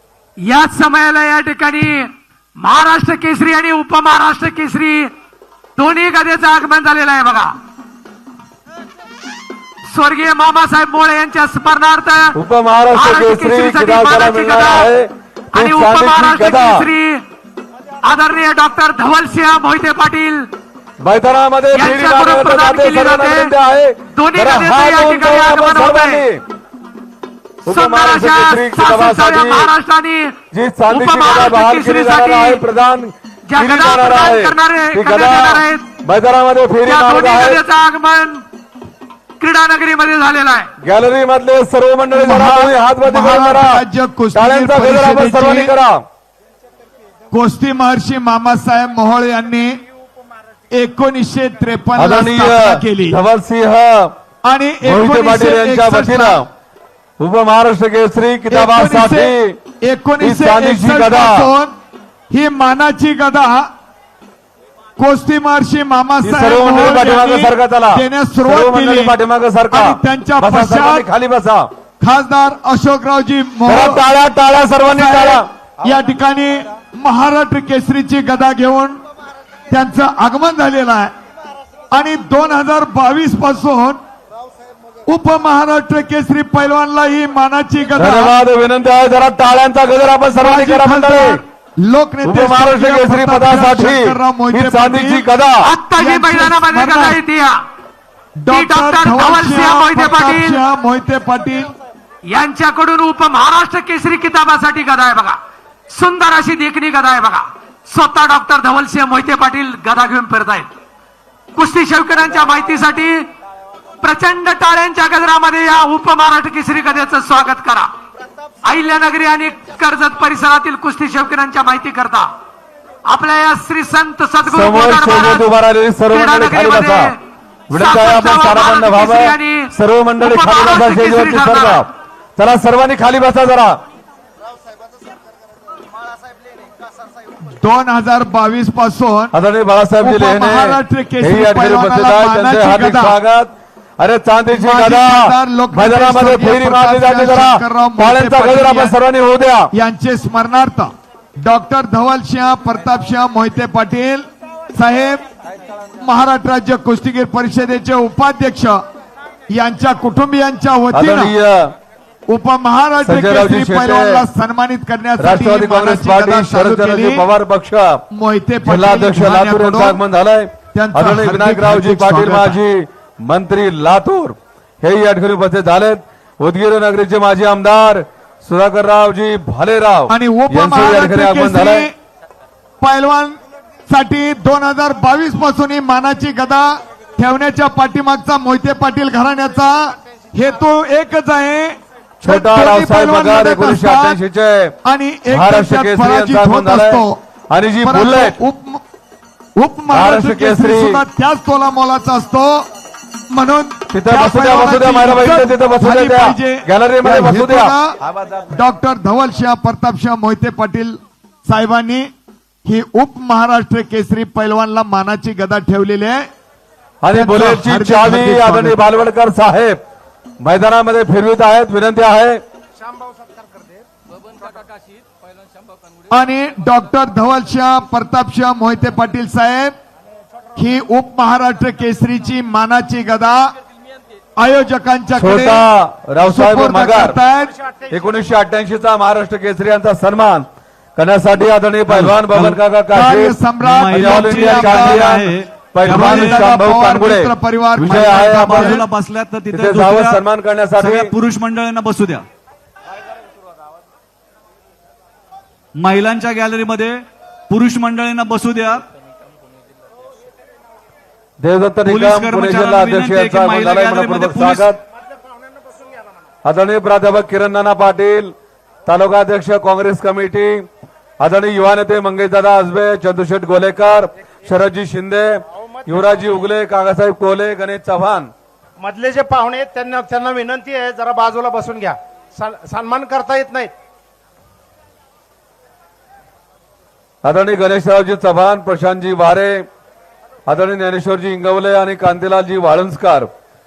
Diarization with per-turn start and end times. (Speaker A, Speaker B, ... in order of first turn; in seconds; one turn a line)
Speaker A: 0.4-2.1
Speaker A: 2.6-5.1
Speaker A: 5.8-7.5
Speaker A: 9.9-12.3
Speaker B: 12.3-16.9
Speaker A: 12.9-14.9
Speaker A: 15.5-17.2
Speaker A: 18.0-20.5
Speaker B: 21.0-26.4
Speaker A: 21.7-23.5
Speaker A: 24.1-26.2
Speaker B: 27.7-29.7
Speaker A: 27.7-30.4
Speaker B: 30.5-37.6
Speaker A: 30.9-32.6
Speaker A: 33.5-35.9
Speaker A: 36.8-38.4
Speaker A: 39.4-40.7
Speaker B: 40.8-43.8
Speaker C: 42.1-45.7
Speaker B: 44.3-46.0
Speaker C: 47.3-49.8
Speaker C: 50.7-53.2
Speaker B: 52.0-54.1
Speaker C: 54.5-56.4
Speaker B: 54.8-56.5
Speaker B: 57.2-59.5
Speaker C: 58.5-61.7
Speaker B: 60.2-61.5
Speaker C: 62.3-63.7
Speaker C: 65.0-69.2
Speaker B: 66.2-71.7
Speaker C: 69.7-71.0
Speaker C: 72.0-74.0
Speaker B: 73.7-75.5
Speaker C: 74.9-79.0
Speaker C: 79.7-81.1
Speaker C: 81.9-84.0
Speaker C: 85.1-88.4
Speaker B: 88.0-91.4
Speaker C: 90.4-95.2
Speaker B: 92.2-95.7
Speaker A: 95.6-97.6
Speaker C: 96.0-97.2
Speaker C: 98.4-101.7
Speaker A: 98.5-100.6
Speaker A: 102.3-105.4
Speaker A: 105.9-110.7
Speaker A: 111.5-113.2
Speaker A: 114.0-117.9
Speaker A: 118.7-122.3
Speaker A: 123.1-125.5
Speaker B: 124.5-127.1
Speaker A: 126.1-127.2
Speaker B: 127.7-133.8
Speaker A: 127.7-131.8
Speaker C: 137.6-139.3
Speaker B: 139.3-149.7
Speaker C: 140.0-143.2
Speaker C: 144.5-148.9
Speaker C: 149.7-150.9
Speaker C: 151.4-155.2
Speaker C: 156.0-158.8
Speaker C: 159.5-161.3
Speaker B: 160.9-161.7
Speaker C: 162.3-167.2
Speaker B: 163.0-164.2
Speaker B: 165.2-168.0
Speaker C: 168.1-170.0
Speaker B: 168.7-181.9
Speaker C: 170.7-172.6
Speaker C: 180.1-181.9
Speaker C: 182.8-183.4
Speaker C: 183.9-194.2
Speaker B: 192.2-194.8
Speaker C: 194.8-197.2
Speaker B: 195.3-198.3
Speaker C: 197.8-198.8
Speaker C: 199.6-202.7
Speaker B: 199.9-201.0
Speaker C: 203.3-207.9
Speaker B: 203.9-207.7
Speaker C: 208.5-212.1
Speaker C: 212.7-216.2
Speaker B: 217.0-219.8
Speaker C: 217.1-218.8
Speaker B: 220.4-222.4
Speaker D: 222.8-223.8
Speaker C: 226.1-229.7
Speaker C: 230.5-233.4
Speaker C: 234.4-235.6
Speaker B: 235.2-237.2
Speaker C: 236.2-237.5
Speaker B: 237.9-248.8
Speaker E: 241.9-242.6
Speaker C: 242.9-245.2
Speaker E: 243.6-246.5
Speaker C: 245.9-248.9
Speaker E: 247.8-250.2
Speaker B: 249.5-251.1
Speaker E: 250.8-252.2
Speaker E: 255.8-258.8
Speaker B: 261.4-264.8
Speaker E: 261.8-264.7
Speaker B: 266.4-268.3
Speaker B: 268.9-270.6
Speaker B: 271.2-278.3
Speaker D: 278.8-283.7
Speaker B: 287.2-289.6
Speaker B: 290.5-293.3